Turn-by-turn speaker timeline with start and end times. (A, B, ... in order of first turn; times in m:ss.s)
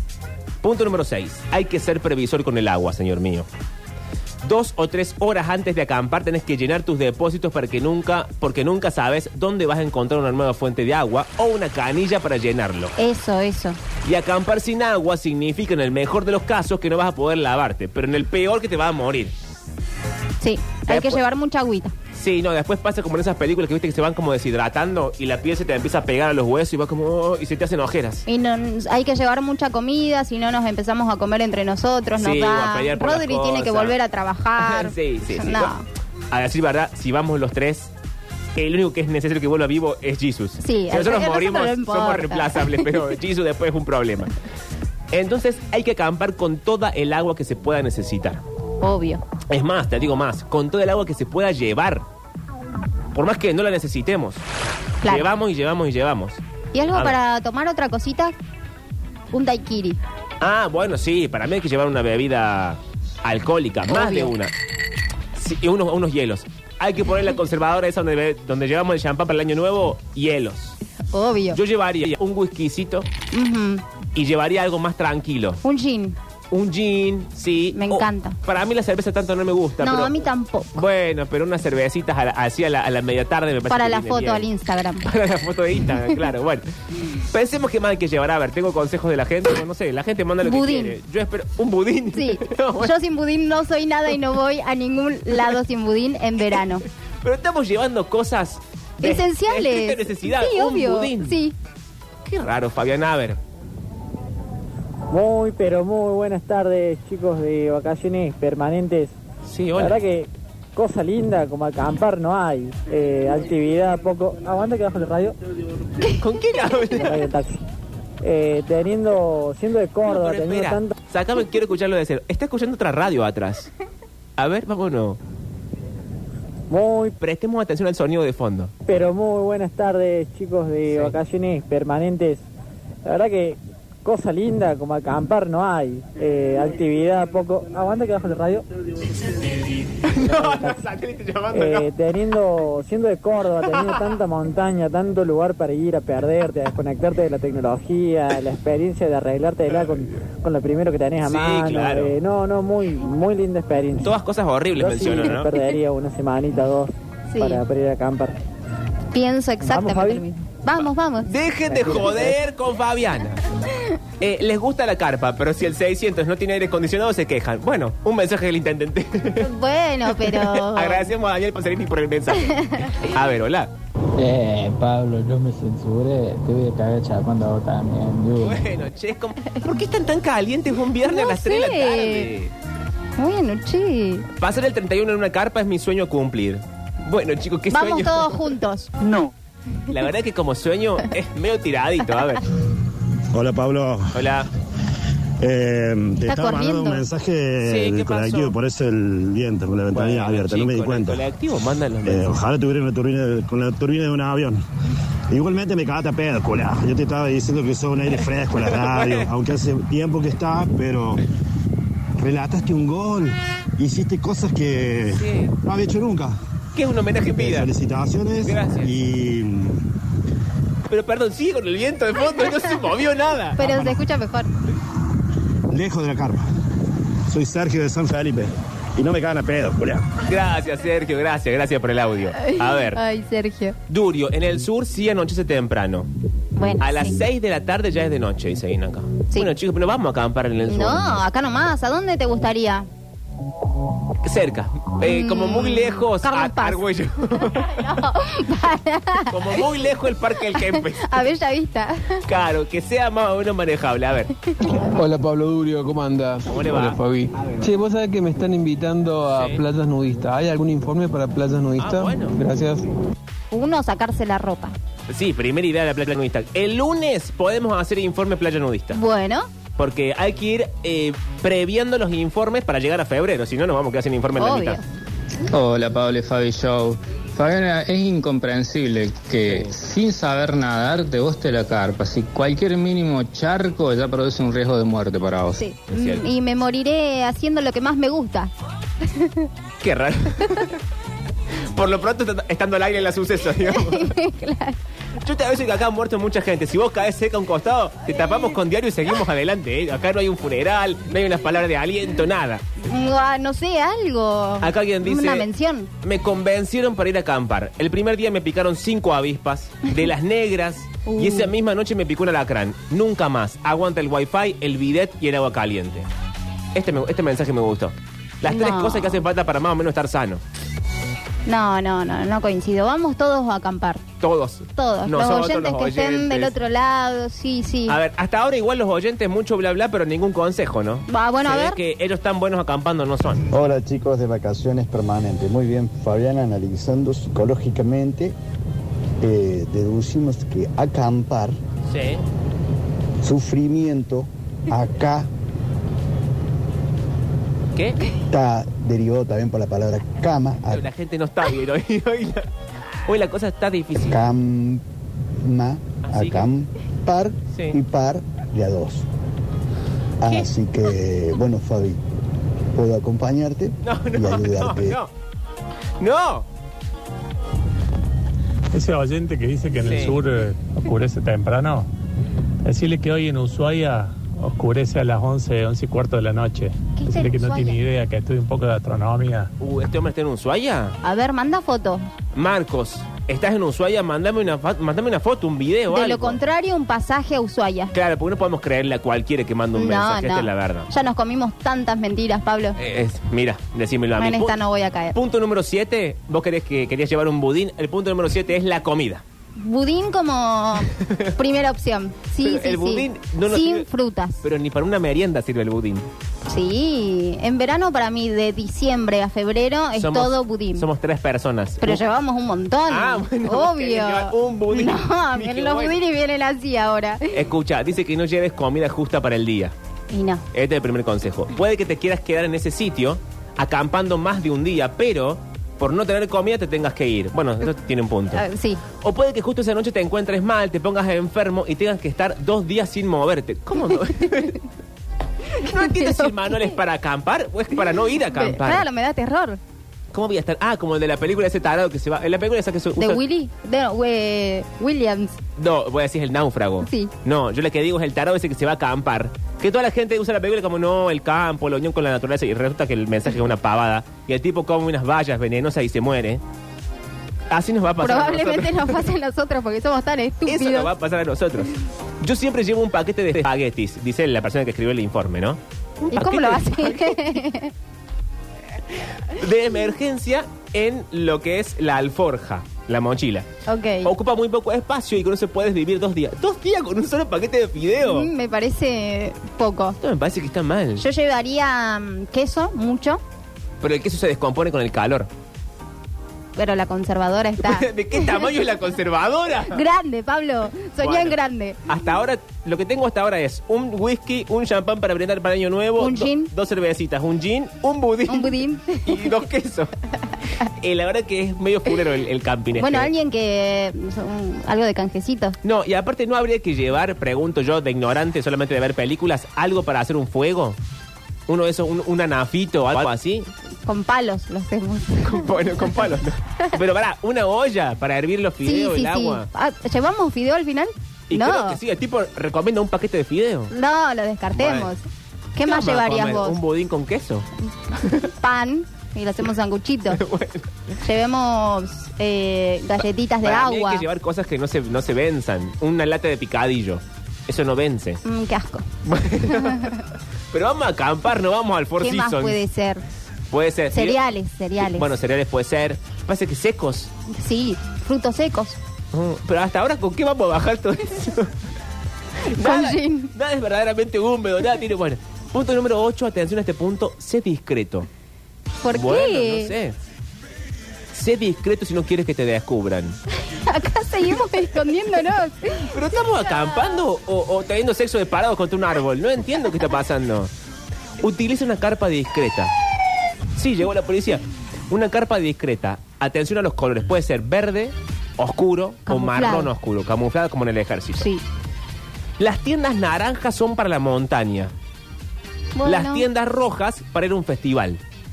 0:00.6-0:03.5 A
0:04.4-0:12.9 A
0:13.0-0:13.8 B
0:14.0-0:19.3 A
0:20.4-0:21.9 B
0:20.9-0:21.2 A
0:22.1-0:28.2 A
0:28.3-0:35.8 B
0:32.2-0:34.0 A
0:34.6-0:35.7 A
0:36.3-0:37.9 A
0:38.6-0:44.3 A
0:40.6-0:42.9 B
0:45.1-0:48.4 A
0:48.8-0:49.2 B
0:49.5-0:52.0 A
0:53.1-0:54.4 A
0:55.0-0:55.3 B
0:55.0-0:56.4 A
0:56.7-0:58.3 B
0:59.3-1:00.0 B
1:00.4-1:04.5 A
1:03.9-1:04.3 B
1:05.4-1:10.8 A
1:11.1-1:11.6 B
1:11.5-1:13.1 A
1:13.3-1:13.8 B
1:14.1-1:15.6 A
1:15.6-1:16.2 B
1:16.5-1:24.5 A
1:17.7-1:18.4 B
1:19.8-1:20.8 B
1:23.7-1:25.1 B
1:25.0-1:26.6 A
1:27.3-1:32.9 A
1:30.4-1:31.0 B
1:32.1-1:36.8 B
1:37.2-1:41.4 A
1:39.0-1:41.5 B
1:42.2-1:43.4 A
1:45.1-1:49.2 C
1:49.4-1:50.0 A
1:49.8-1:55.4 C
1:56.1-1:57.2 A
1:57.0-1:57.6 C
1:58.2-2:00.9 C
2:00.0-2:03.7 A
2:04.4-2:05.2 A
2:06.7-2:07.1 C
2:07.2-2:08.7 A
2:08.9-2:12.4 C
2:10.9-2:11.1 A
2:13.0-2:18.6 C
2:19.9-2:21.9 A
2:20.2-2:20.8 C
2:21.5-2:34.1 C
2:31.2-2:32.1 A
2:34.0-2:35.5 A
2:34.8-2:38.4 C
2:37.3-2:37.6 B
2:39.1-2:41.3 B
2:39.6-2:40.2 C
2:41.2-2:43.4 A
2:41.7-2:42.4 C
2:44.2-2:49.5 A
2:49.4-2:51.1 B
2:50.0-2:53.7 A
2:52.5-2:52.9 B
2:54.2-2:58.6 D
2:58.4-3:02.5 A
3:01.0-3:02.3 B
3:03.2-3:04.2 B
3:04.4-3:08.5 A
3:07.7-3:08.9 B
3:09.9-3:12.4 A
3:13.3-3:14.3 E
3:14.1-3:14.5 A
3:15.4-3:21.2 E
3:16.2-3:17.0 B
3:17.6-3:18.5 A
3:19.9-3:22.4 A
3:22.0-3:24.6 E
3:25.3-3:31.2 E
3:28.6-3:29.3 A
3:32.2-3:36.4 E
3:35.2-3:35.5 A
3:36.7-3:37.7 A
3:37.4-3:39.8 E
3:38.4-3:38.9 A
3:40.9-3:43.7 A
3:43.6-3:44.5 B
3:43.6-3:44.0 E
3:45.7-3:46.4 E
3:47.3-3:50.1 E
3:50.3-3:53.0 A
3:52.4-3:53.8 B
3:53.9-3:56.1 A
3:56.6-3:57.2 B
3:56.8-4:01.2 A
4:00.7-4:02.9 B
4:04.2-4:07.8 A
4:05.0-4:09.6 B
4:09.3-4:11.3 A
4:10.5-4:12.2 B
4:12.2-4:14.3 A
4:14.8-4:22.9 F
4:16.4-4:17.0 A
4:19.3-4:19.6 A
4:21.8-4:22.4 A
4:23.5-4:24.8 B
4:25.1-4:29.0 A
4:28.9-4:29.5 B
4:29.8-4:34.8 A
4:34.4-4:34.8 B
4:35.5-4:45.6 G
4:39.5-4:39.7 A
4:45.6-4:48.5 B
4:45.9-4:46.2 A
4:49.1-4:49.5 B
4:49.8-4:50.8 A
4:51.7-4:54.1 A
4:53.7-4:54.8 B
4:55.2-5:02.6 A
5:02.8-5:05.9 B
5:04.6-5:05.5 A
5:06.0-5:16.1 A
5:11.0-5:11.5 B
5:16.7-5:20.4 A
5:18.4-5:19.2 B
5:21.4-5:24.0 B
5:24.2-5:26.5 A
5:24.8-5:28.0 B
5:27.9-5:33.4 A
5:31.1-5:31.8 B
5:33.5-5:38.3 H
5:39.2-5:41.6 H
5:41.9-5:42.2 A
5:43.2-5:45.3 H
5:47.8-5:48.0 A
5:48.3-5:50.8 H
5:50.7-5:52.5 A
5:53.0-5:54.2 A
5:54.0-5:54.8 H
5:55.4-5:59.0 H
5:56.0-5:56.5 A
6:00.2-6:02.0 H
6:02.7-6:05.0 H
6:03.8-6:05.1 A
6:06.0-6:06.4 A
6:08.7-6:11.9 I
6:09.7-6:10.2 A
6:12.6-6:19.5 I
6:17.0-6:17.8 B
6:19.6-6:21.0 A
6:21.0-6:22.1 B
6:22.3-6:26.4 A
6:25.9-6:27.9 B
6:27.9-6:30.9 A
6:29.7-6:32.8 B
6:32.8-6:34.6 A
6:34.2-6:35.2 B
6:35.1-6:39.2 A
6:39.6-6:44.4 B
6:42.4-6:43.8 A
6:44.4-6:46.1 A
6:46.5-6:50.9 B
6:50.0-6:52.0 A
6:51.8-6:57.4 B
6:52.9-6:56.0 A
6:57.3-6:59.7 A
7:00.1-7:00.4 B
7:00.5-7:08.4 A
7:08.3-7:08.8 B
7:09.0-7:14.6 A
7:15.6-7:18.8 A
7:15.6-7:16.7 B
7:18.3-7:19.6 B
7:20.1-7:23.2 A
7:23.0-7:25.4 B
7:25.6-7:36.4 A
7:26.8-7:27.1 B
7:37.5-7:39.0 A
7:38.0-7:40.9 B
7:40.4-7:45.6 A
7:46.1-7:47.7 B
7:46.1-7:47.4 A
7:49.3-7:53.5 A
7:53.7-7:54.1 B
7:54.0-7:58.3 A
7:58.0-8:00.0 B
8:00.0-8:01.0 A
8:01.0-8:03.2 B
8:03.8-8:05.3 A
8:06.6-8:08.5 B
8:07.6-8:09.8 A
8:09.7-8:11.8 B
8:11.0-8:19.9 A
8:16.0-8:16.5 B
8:18.3-8:19.2 B
8:20.6-8:23.1 A
8:22.8-8:25.6 B
8:25.6-8:30.8 A
8:31.5-8:33.5 A
8:33.8-8:35.5 B
8:35.2-8:39.5 A
8:38.6-8:41.8 B
8:41.3-8:43.7 A
8:43.7-8:45.0 B
8:44.6-8:44.9 A
8:45.6-8:46.6 B
8:45.6-8:47.5 A
8:48.0-8:48.3 A
8:48.4-8:50.2 B
8:50.1-8:50.7 A
8:51.0-8:54.0 B
8:53.4-8:58.2 A
8:58.2-8:58.8 B
8:59.0-9:00.0 A
8:59.5-8:59.9 B
9:00.5-9:02.6 A
9:02.0-9:03.0 B
9:03.5-9:04.2 A
9:03.9-9:05.1 B
9:04.9-9:07.1 A
9:07.3-9:08.8 B
9:09.1-9:11.5 A
9:12.4-9:18.1 A
9:12.6-9:13.3 B
9:18.8-9:19.7 B
9:18.9-9:19.9 A
9:21.1-9:23.2 A
9:23.5-9:25.9 B
9:25.9-9:30.5 A
9:31.2-9:32.7 A
9:33.5-9:41.2 A
9:39.1-9:39.7 B
9:42.4-9:44.7 A
9:45.7-9:46.2 B
9:45.8-9:48.0 A